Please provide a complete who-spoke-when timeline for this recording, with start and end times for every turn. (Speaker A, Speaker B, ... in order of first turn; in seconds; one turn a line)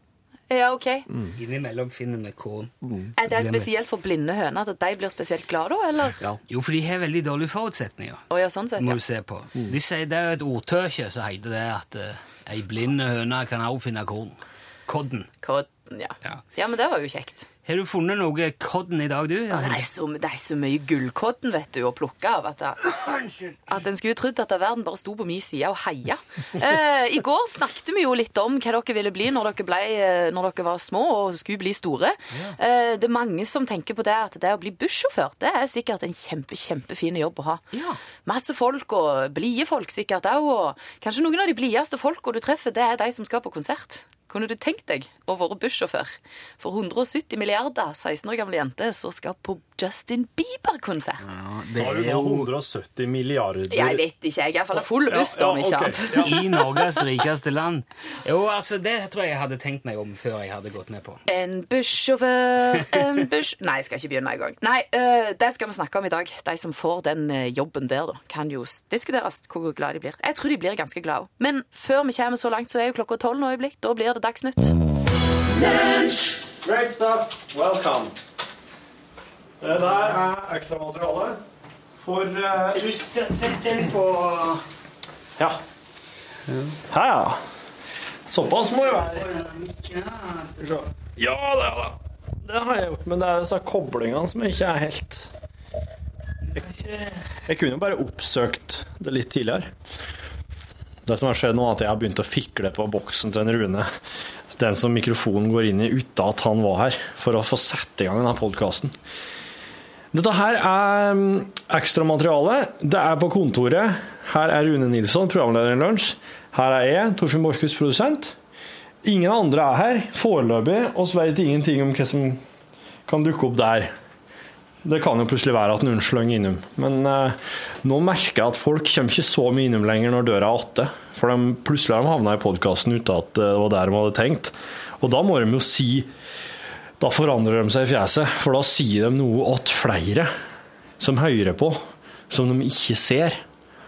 Speaker A: 0.5-1.1
Speaker B: 1.4-3.7
Speaker C: 2.8-3.1
Speaker A: 3.2-6.2
Speaker B: 6.5-8.2
Speaker A: 8.3-9.0
Speaker B: 8.8-15.3
Speaker A: 15.4-17.4
Speaker B: 17.6-19.8
Speaker A: 19.5-22.8
Speaker B: 23.1-23.4
Speaker A: 23.7-37.6
Speaker B: 37.7-38.0
Speaker A: 38.2-51.2
Speaker B: 51.2-52.5
Speaker C: 51.7-54.0
Speaker A: 53.7-56.4
Speaker C: 54.9-56.4
Speaker B: 56.1-61.2
Speaker A: 61.3-74.8
Speaker C: 75.6-78.1
Speaker C: 79.6-81.4
Speaker C: 82.0-82.8
Speaker B: 82.7-84.6
Speaker B: 86.5-86.7
Speaker C: 86.9-87.4
Speaker C: 88.3-89.2
Speaker B: 88.4-90.8
Speaker C: 90.6-95.3
Speaker B: 96.5-97.3
Speaker C: 97.5-99.7
Speaker C: 101.0-103.9
Speaker C: 104.5-108.9
Speaker C: 110.1-118.3
Speaker C: 119.0-122.4
Speaker C: 123.1-123.9
Speaker C: 124.8-136.1
Speaker C: 137.0-140.3
Speaker C: 141.0-143.4